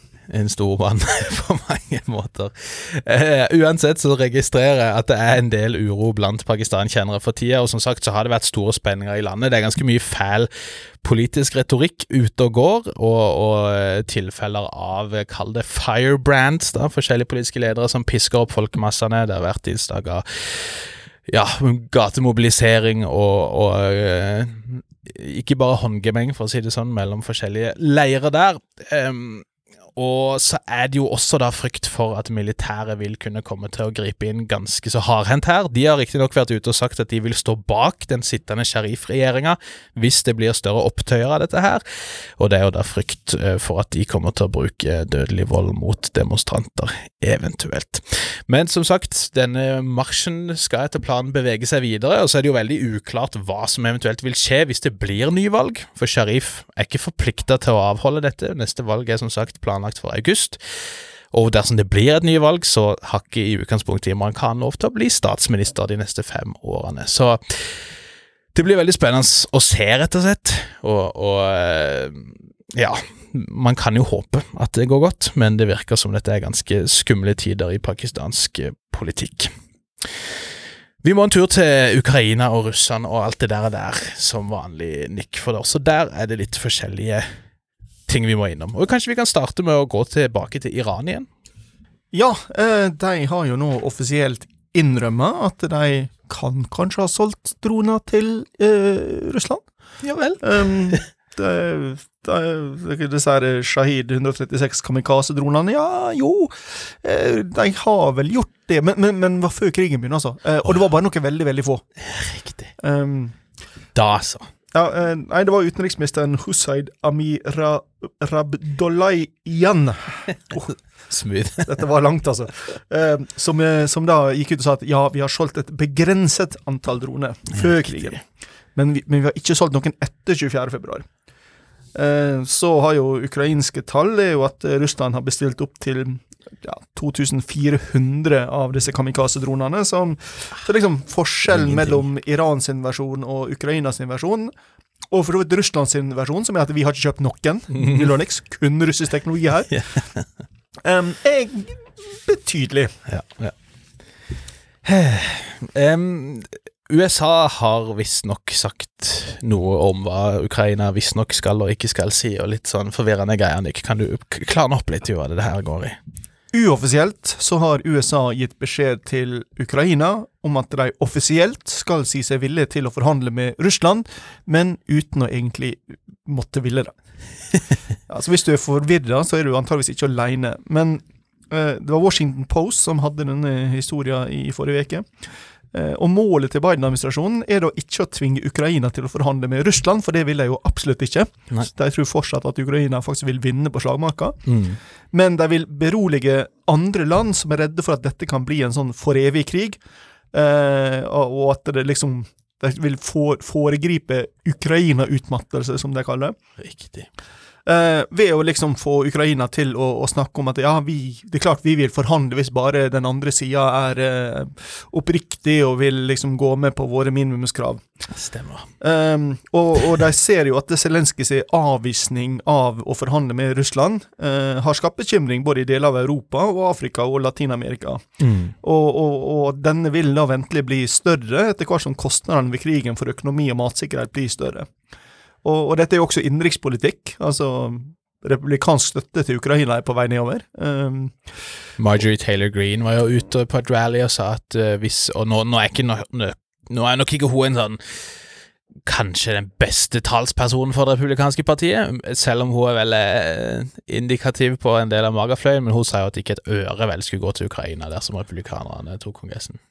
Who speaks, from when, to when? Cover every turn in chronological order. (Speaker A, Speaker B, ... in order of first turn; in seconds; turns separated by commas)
Speaker A: 0.3-10.5, Speaker A: 11.0-41.8, Speaker A: 42.4-60.6, Speaker A: 61.3-67.6, Speaker A: 68.5-79.5, Speaker A: 81.0-87.3, Speaker A: 88.1-91.3, Speaker B: 92.1-99.6, Speaker A: 100.0-101.0, Speaker B: 100.4-111.8, Speaker A: 112.0-112.7, Speaker B: 112.8-113.4, Speaker A: 113.9-114.5, Speaker B: 114.7-120.7, Speaker A: 121.1-121.7, Speaker B: 121.6-131.1, Speaker B: 131.9-144.5, Speaker A: 141.5-142.0, Speaker B: 145.1-149.8, Speaker A: 147.7-148.1, Speaker A: 149.7-150.2, Speaker B: 150.8-153.0, Speaker A: 153.1-153.5, Speaker A: 154.8-166.0, Speaker B: 166.5-176.9, Speaker B: 178.1-194.5, Speaker A: 194.5-194.8, Speaker B: 195.1-199.8, Speaker B: 200.3-206.4, Speaker A: 206.6-207.1, Speaker B: 207.7-217.8, Speaker A: 218.1-218.7, Speaker B: 218.8-228.0, Speaker A: 228.2-228.5, Speaker B: 228.6-234.7, Speaker B: 235.4-241.2, Speaker A: 241.8-247.8, Speaker A: 248.9-259.6